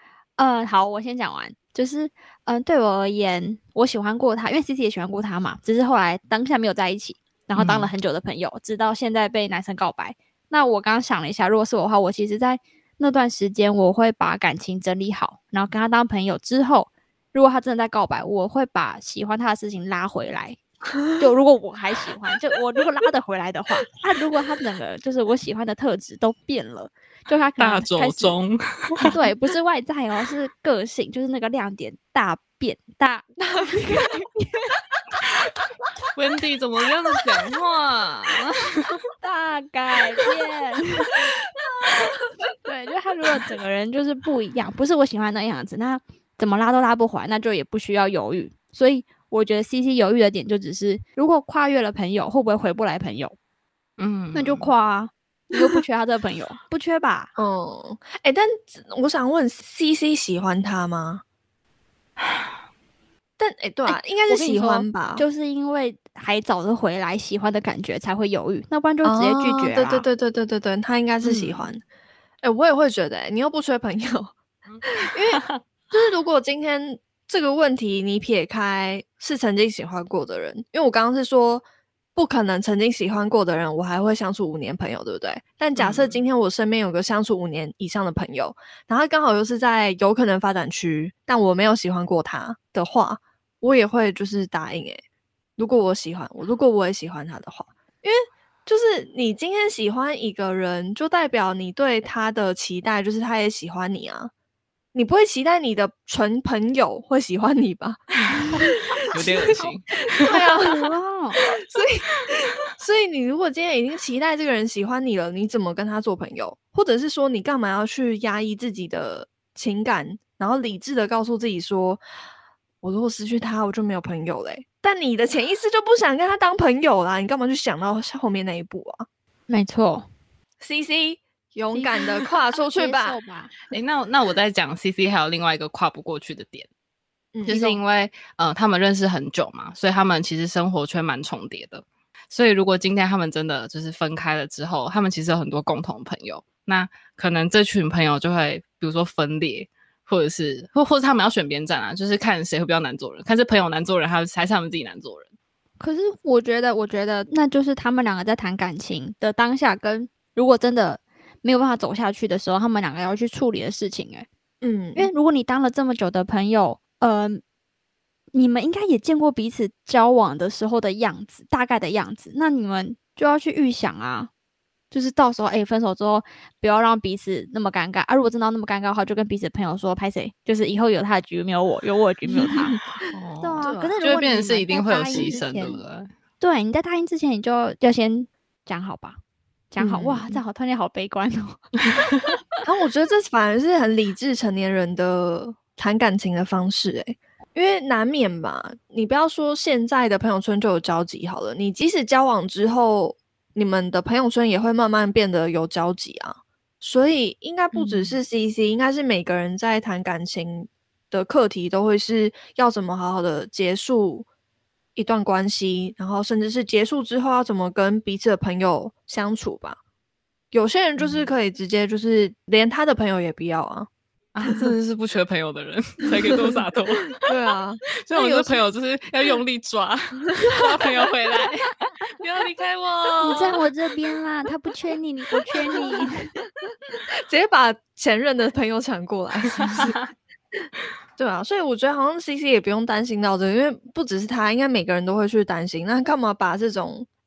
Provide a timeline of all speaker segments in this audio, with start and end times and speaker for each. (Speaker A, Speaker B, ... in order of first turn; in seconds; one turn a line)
Speaker A: 0.4-20.6
Speaker B: 7.5-7.9
Speaker A: 21.1-28.4
Speaker B: 27.6-29.1
Speaker A: 29.0-34.3
Speaker C: 33.4-34.3
Speaker B: 36.1-39.0
Speaker A: 39.2-41.2
Speaker C: 41.6-42.3
Speaker A: 42.6-53.3
Speaker B: 54.0-54.7
Speaker A: 54.3-57.3
Speaker C: 57.4-61.2
Speaker B: 62.2-62.4
Speaker C: 63.4-65.2
Speaker A: 63.9-70.0
Speaker C: 69.0-71.8
Speaker A: 71.2-71.5
Speaker C: 72.4-74.3
Speaker B: 74.7-75.6
Speaker C: 74.9-81.6
Speaker C: 82.2-95.0
Speaker B: 85.8-86.2
Speaker C: 95.6-104.3
Speaker C: 104.9-109.6
Speaker B: 108.6-110.4
Speaker C: 110.2-122.0
Speaker A: 110.2-111.4
Speaker C: 122.8-129.1
Speaker A: 129.5-130.1
Speaker C: 130.6-133.2
Speaker A: 131.7-133.5
Speaker B: 133.7-136.7
Speaker C: 137.3-137.8
Speaker B: 137.4-155.3
Speaker A: 155.8-164.3
Speaker C: 164.6-165.1
Speaker A: 164.9-167.4
Speaker A: 168.3-174.3
Speaker A: 174.9-182.8
Speaker C: 182.4-182.8
Speaker B: 183.1-186.1
Speaker A: 183.4-185.8
Speaker C: 183.6-184.2
Speaker C: 185.1-185.4
Speaker A: 186.4-189.2
Speaker A: 189.7-191.7
Speaker C: 189.8-190.4
Speaker C: 192.6-214.3
Speaker C: 214.9-219.8
Speaker C: 220.5-223.9
Speaker B: 221.0-221.2
Speaker B: 224.3-227.2
Speaker C: 224.4-224.7
Speaker C: 226.1-226.6
Speaker C: 227.2-228.6
Speaker B: 228.0-233.6
Speaker C: 230.5-230.8
Speaker A: 233.2-236.4
Speaker C: 235.7-236.1
Speaker C: 237.2-240.0
Speaker B: 239.6-240.1
Speaker C: 241.2-247.1